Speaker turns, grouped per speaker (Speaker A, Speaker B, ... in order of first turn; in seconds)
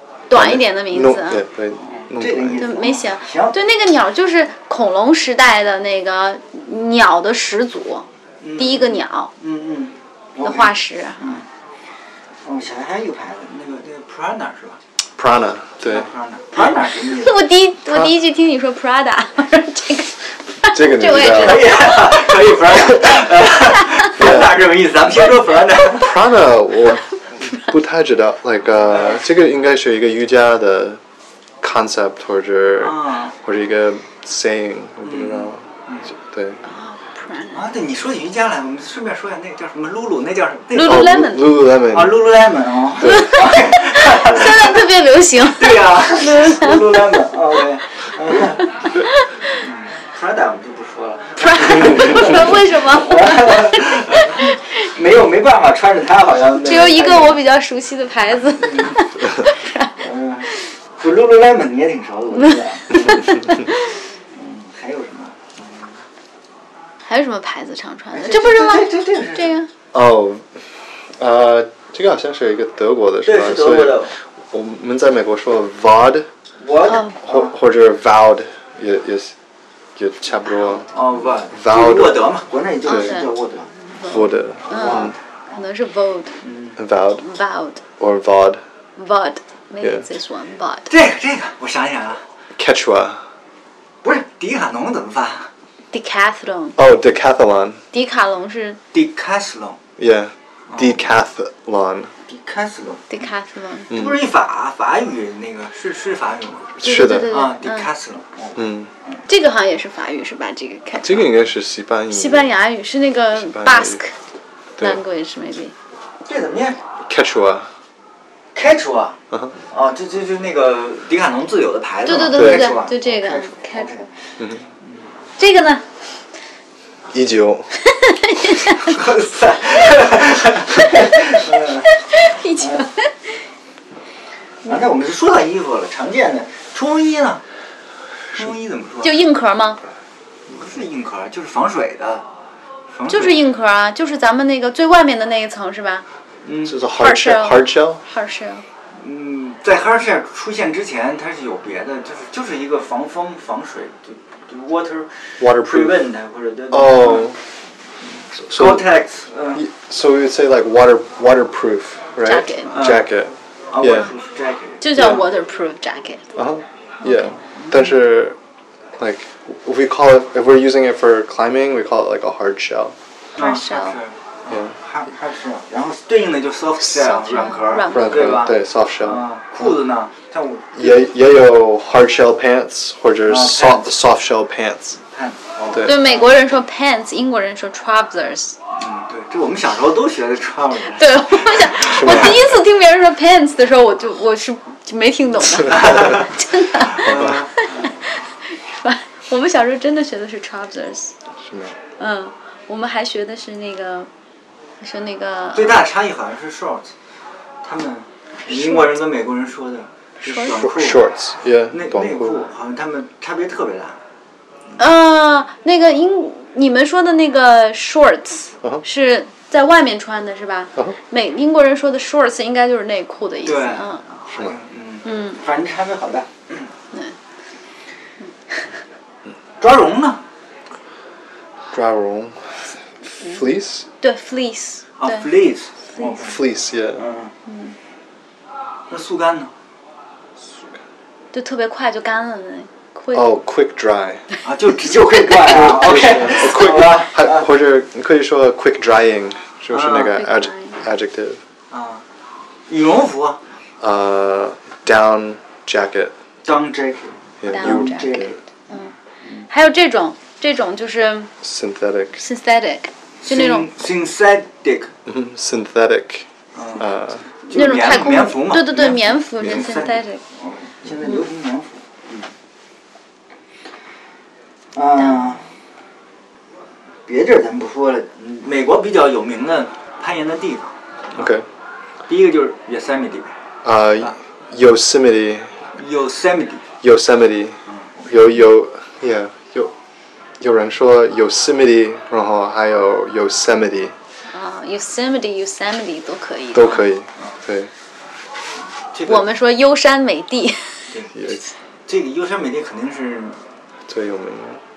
Speaker A: 0.3-1.4, 2.6-8.1, 8.6-9.3, 10.4-11.4, 16.6-22.6, 36.6-37.6, 40.7-41.5, 43.0-47.2, 51.4-54.7, 56.6-59.9, 62.9-63.8, 67.1-69.7, 76.9-77.2, 82.9-83.3, 83.9-86.3, 87.2-87.8, 89.0-90.9, 95.9-96.8, 97.9-98.8, 103.1-104.0, 106.8-107.9, 109.3-111.4, 112.1-114.1, 114.8-115.7, 122.0-124.0, 125.4-125.8, 127.8-129.0, 131.0-131.4, 132.0-133.4, 139.0-139.8, 143.1-146.0, 146.9-148.6, 162.2-162.8, 164.8-166.3, 167.0-167.3, 173.4-174.0, 176.8-178.5, 185.8-188.6, 190.9-201.1, 202.0-204.1, 204.8-205.8, 208.5-209.0, 210.3-210.7, 214.8-224.0, 225.0-225.4, 234.0-235.3, 237.5-237.8, 241.3-243.4, 250.0-250.8, 257.4-258.9, 259.5-261.3, 262.2-263.7, 267.5-270.2, 294.3-296.9, 299.1-300.9
Speaker B: 0.3-2.9, 15.2-16.1, 20.7-21.8, 24.1-24.6, 25.9-31.0, 31.6-36.6, 40.8-42.3, 43.0-43.5, 44.1-44.6, 69.9-70.6, 71.2-76.3, 77.2-79.3, 80.0-80.9, 81.5-82.3, 82.9-83.2, 84.1-85.2, 86.8-87.3, 88.0-88.6, 89.8-90.1, 92.6-93.2, 96.8-97.8, 100.0-102.1, 103.9-104.2, 106.8-107.3, 108.6-108.9, 111.0-112.5, 113.3-114.0, 117.1-117.7, 122.3-122.8, 127.1-127.7, 146.7-148.0, 155.4-156.0, 156.7-157.4, 158.4-158.9, 159.5-164.1, 164.9-165.2, 166.4-168.4, 169.0-173.0, 177.9-179.7, 180.8-185.0, 191.8-192.5, 197.0-197.4, 201.4-201.8, 210.4-212.4, 231.7-233.9, 236.0-237.0, 243.1-244.2, 245.3-251.4, 253.8-256.1, 257.4-258.3, 261.4-262.2, 265.1-267.2, 281.1-281.4, 283.6-285.5, 286.8-289.7, 290.4-293.9, 296.5-297.7, 301.1-301.5, 303.9-304.6
Speaker C: 1.8-3.6, 8.4-11.5, 12.4-14.8, 15.8-17.4, 21.3-26.1, 28.9-29.2, 32.8-33.4, 35.0-36.1, 37.5-41.2, 41.9-44.8, 45.4-48.8, 49.5-57.4, 58.6-59.0, 60.0-63.5, 64.3-66.0, 68.1-69.6, 73.2-74.1, 76.6-77.5, 80.9-83.7, 84.7-85.1, 86.4-86.8, 90.9-92.2, 94.0-95.5, 98.9-99.8, 100.7-101.0, 102.3-103.1, 103.9-109.2, 116.3-116.8, 118.5-119.2, 119.7-124.1, 128.8-131.9, 132.6-132.9, 134.6-137.4, 138.3-139.2, 140.6-142.2, 142.9-143.5, 146.4-146.8, 148.9-157.4, 158.5-159.7, 162.7-163.1, 163.7-164.9, 167.6-167.9, 173.4-180.8, 183.3-183.9, 185.1-186.3, 188.8-192.4, 195.7-197.9, 205.5-206.9, 207.6-211.1, 211.7-214.0, 223.4-226.7, 229.6-230.2, 235.0-236.4, 237.0-237.3, 238.9-239.5, 244.4-247.5, 249.7-250.2, 251.7-252.0, 252.7-253.4, 256.4-259.4, 263.2-264.9, 266.5-266.9, 267.5-272.3, 274.8-275.4, 277.1-281.3, 282.1-283.4, 285.8-286.6, 287.7-288.1, 298.9-299.3, 301.9-303.4